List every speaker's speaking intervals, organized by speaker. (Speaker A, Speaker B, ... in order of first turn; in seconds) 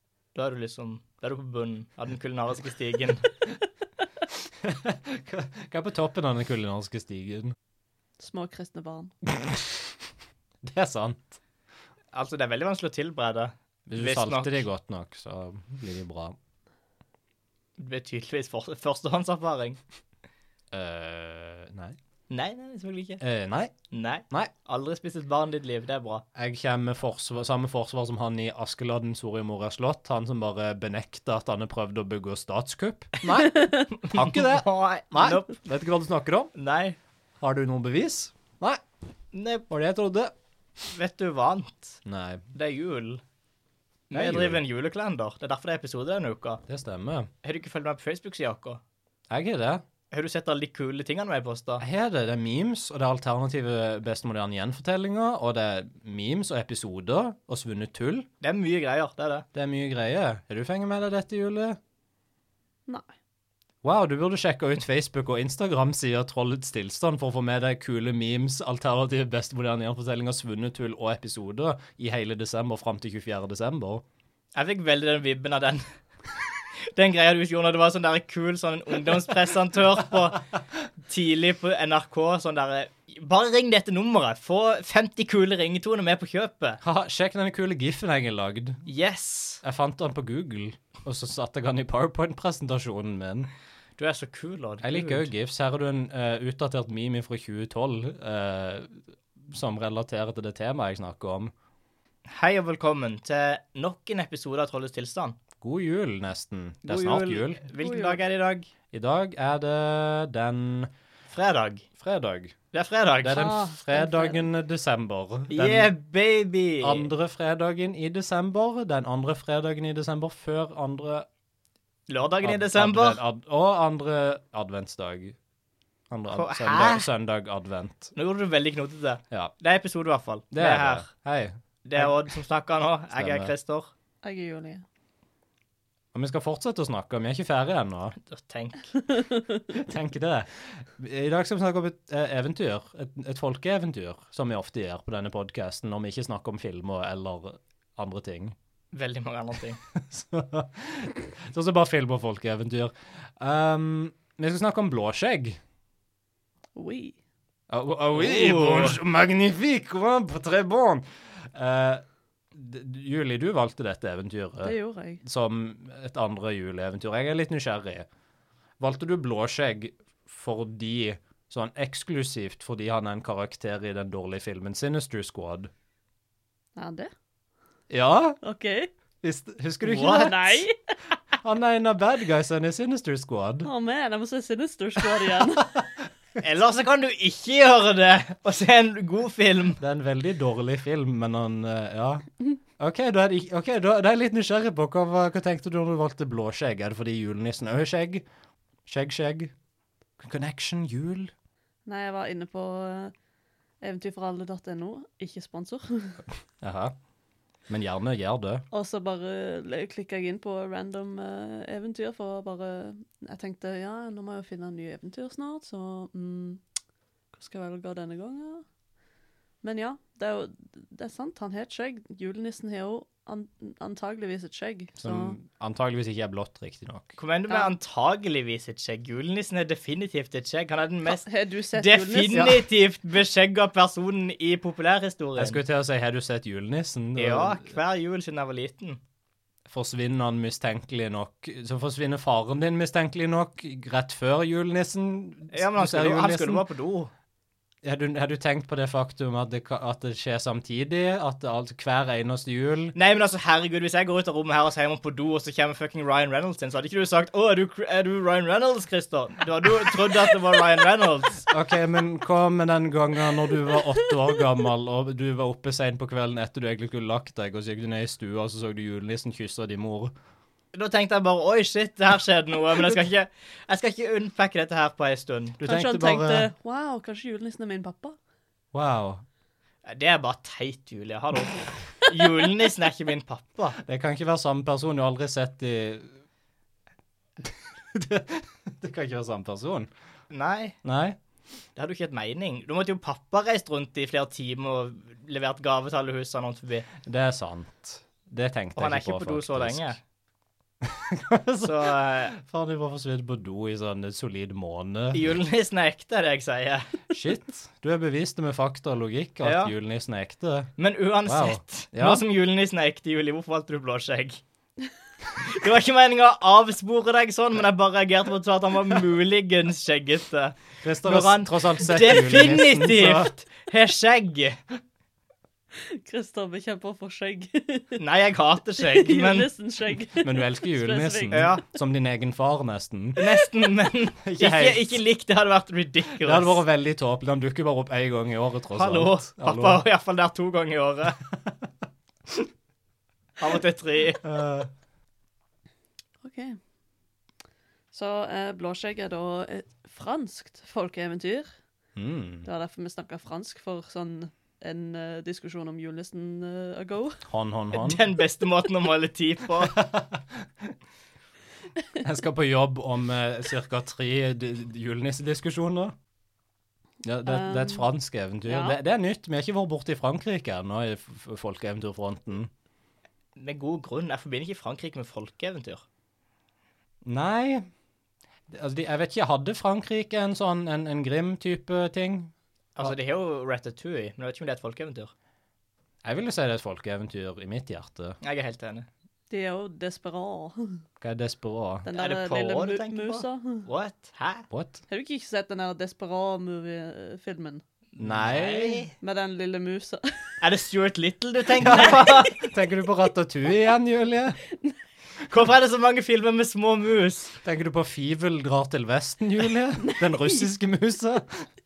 Speaker A: 0.3-3.3, 12.1-14.7, 17.8-19.8, 22.3-23.2, 23.9-26.2, 34.0-35.6, 36.6-37.0, 39.3-39.7, 40.9-42.0, 42.5-43.2, 44.1-46.6, 47.4-48.8, 50.1-51.9, 58.4-59.5, 74.5-75.8, 76.8-80.5, 81.1-86.8, 88.9-89.6, 94.0-95.3, 102.3-105.4, 106.9-108.7, 111.3-111.9, 112.7-113.5, 115.5-117.1, 122.1-123.2, 126.3-127.1, 128.2-131.1, 131.8-133.9, 138.2-138.9, 148.9-149.8, 158.1-159.0, 179.8-180.3, 186.4-189.8, 227.2-235.6, 237.2-239.0, 245.5-247.1, 252.9-261.5, 270.7-275.6, 279.9-283.8, 290.3-290.8, 291.8-296.9, 298.8-300.0, 301.6-302.4, 305.1-307.0, 309.4-309.7, 310.8-314.4, 315.4-324.6, 328.0-329.5, 331.3-331.6, 333.2-336.6, 338.7-341.2, 343.4-344.2, 357.7-359.8, 373.4-375.9, 382.8-385.1, 388.2-388.9, 392.0-394.5, 398.0-398.9, 400.4-402.4, 405.3-407.4
Speaker B: 4.6-7.5, 9.3-9.9, 10.6-11.4, 13.9-16.4, 20.7-22.0, 23.2-23.7, 26.4-36.5, 37.4-38.8, 39.7-40.3, 42.0-42.4, 44.1-44.6, 46.7-47.3, 49.3-49.8, 51.8-58.3, 59.5-61.8, 63.8-74.0, 86.8-88.8, 89.6-93.5, 94.8-101.5, 105.6-107.6, 108.9-110.9, 112.0-112.6, 113.2-115.9, 116.8-121.3, 122.4-125.4, 126.1-128.1, 130.5-132.2, 133.1-133.5, 136.1-138.2, 139.7-148.6, 149.9-155.6, 157.7-168.1, 168.8-175.7, 177.9-178.4, 179.2-180.7, 181.4-183.7, 185.0-186.1, 189.8-198.2, 198.9-199.5, 200.2-201.3, 206.6-206.9, 207.7-208.7, 225.0-227.2, 235.4-237.7, 239.7-246.7, 247.8-252.9, 261.5-270.1, 275.6-276.5, 278.7-279.2, 283.8-286.1, 287.4-289.9, 290.8-291.2, 297.0-300.0, 300.8-305.4, 307.1-310.7, 311.2-312.2, 320.8-323.3, 330.2-333.2, 334.2-335.0, 336.2-339.8, 344.2-344.7, 352.0-352.5, 357.3-358.0, 359.6-360.7, 362.0-365.9, 367.0-372.5, 377.1-377.7, 378.5-383.0, 386.0-388.2, 391.0-391.9, 394.5-394.8, 398.0-398.9, 401.6-404.4, 407.4-411.5
Speaker C: 8.2-9.1, 33.4-33.9, 107.8-108.2, 113.3-114.5, 134.2-134.8, 156.8-157.2, 164.6-165.2, 176.8-177.1, 178.4-178.9, 180.0-180.8, 183.6-185.8, 201.9-203.1, 203.8-206.2, 208.7-216.6, 217.3-218.7, 219.6-225.4, 231.1-232.7, 275.6-278.2, 325.9-328.0, 328.8-331.5, 346.2-346.6, 347.9-351.6, 352.4-357.2, 367.3-367.9, 368.5-368.8, 389.3-390.8, 391.9-393.7, 394.9-397.6, 399.0-400.3, 401.9-402.1, 409.8-410.4